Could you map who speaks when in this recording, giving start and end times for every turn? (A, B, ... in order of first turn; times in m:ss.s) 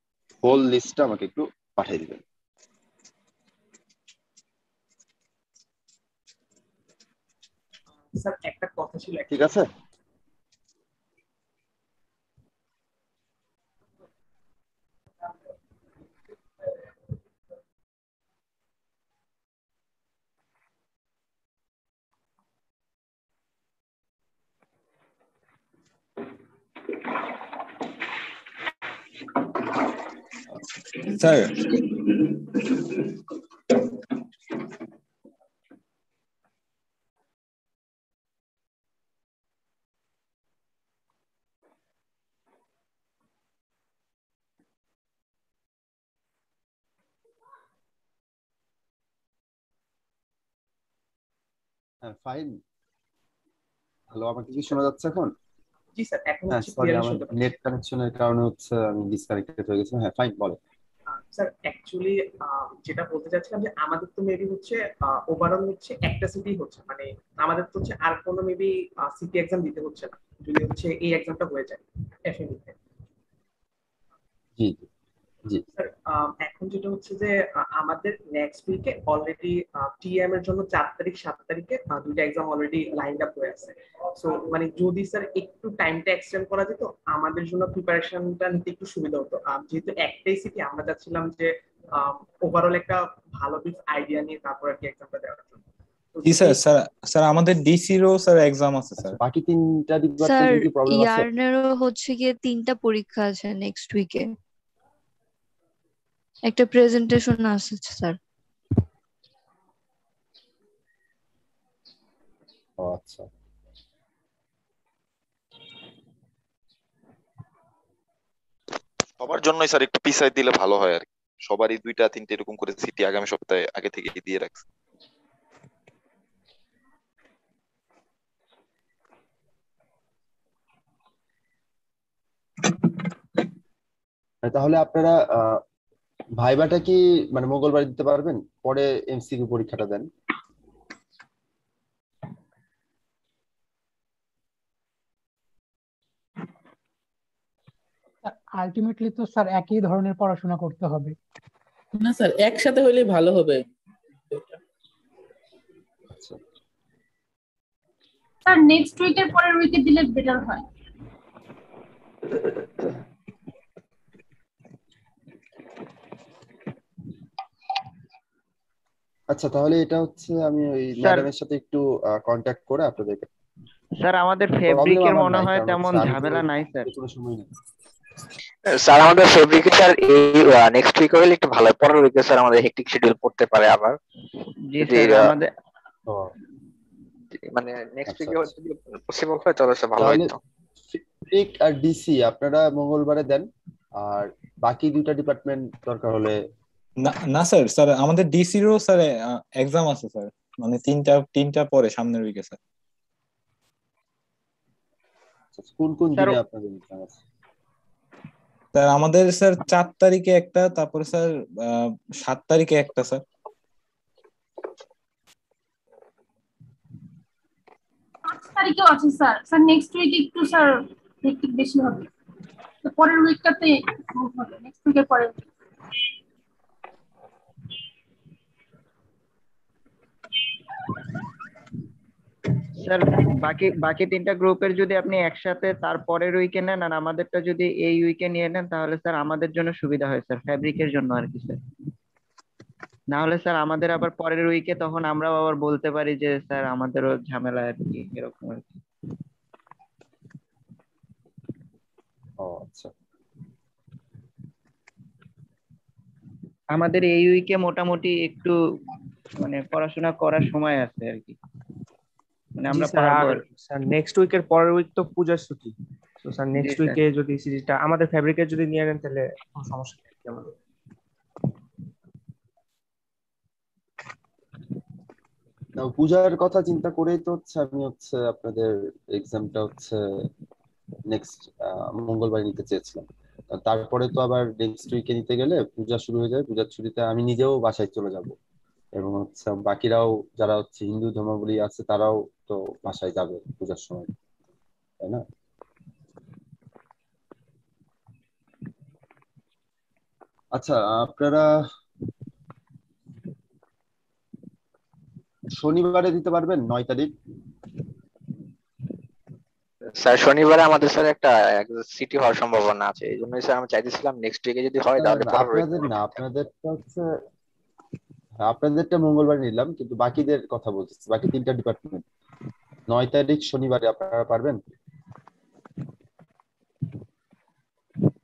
0:00.4-0:02.2 A
0:08.1-0:09.5 B
0:09.3-0:09.7 A
0:31.1-0:31.8 C
0:52.0-0:52.6 A
0:54.1-0:55.3 A
0:56.0-0:57.6 B
0:56.5-1:00.6 A
1:01.1-1:12.8 B
1:14.6-1:14.9 A
1:15.7-1:35.6 B
1:36.1-1:36.6 B
1:36.2-1:39.2 C
1:39.0-1:41.3 A
1:40.2-1:44.3 D
1:46.5-1:48.2 D
1:52.8-1:53.3 A
1:59.2-2:04.6 E
2:14.4-2:15.6 A
2:16.4-2:20.1 A
2:28.2-2:31.2 F
2:32.0-2:33.6 G
2:34.3-2:34.6 G
2:38.4-2:40.6 H
2:49.3-2:53.3 A
2:51.0-2:51.3 I
2:54.0-2:56.9 I
2:54.7-2:57.5 A
2:58.7-3:04.0 J
3:04.7-3:05.5 I
3:04.8-3:05.3 J
3:06.1-3:06.3 A
3:07.3-3:10.4 J
3:08.1-3:08.5 A
3:10.0-3:10.3 A
3:10.9-3:16.4 A
3:17.0-3:22.6 C
3:25.6-3:27.2 A
3:28.8-3:33.2 C
3:38.3-3:42.1 H
3:42.8-3:45.4 H
3:52.8-4:01.6 I
4:03.1-4:08.7 I
4:12.4-4:12.9 A
4:16.7-4:18.6 I
4:19.4-4:21.4 I
4:22.6-4:23.4 I
4:22.7-4:25.7 K
4:26.2-4:30.5 K
4:26.6-4:27.0 I
4:35.8-4:40.0 A
4:41.1-4:48.3 A
4:49.0-4:54.1 A
5:00.6-5:01.5 A
5:05.5-5:07.1 A
5:10.0-5:16.2 J
5:15.0-5:17.2 A
5:18.4-5:22.0 A
5:22.9-5:24.6 A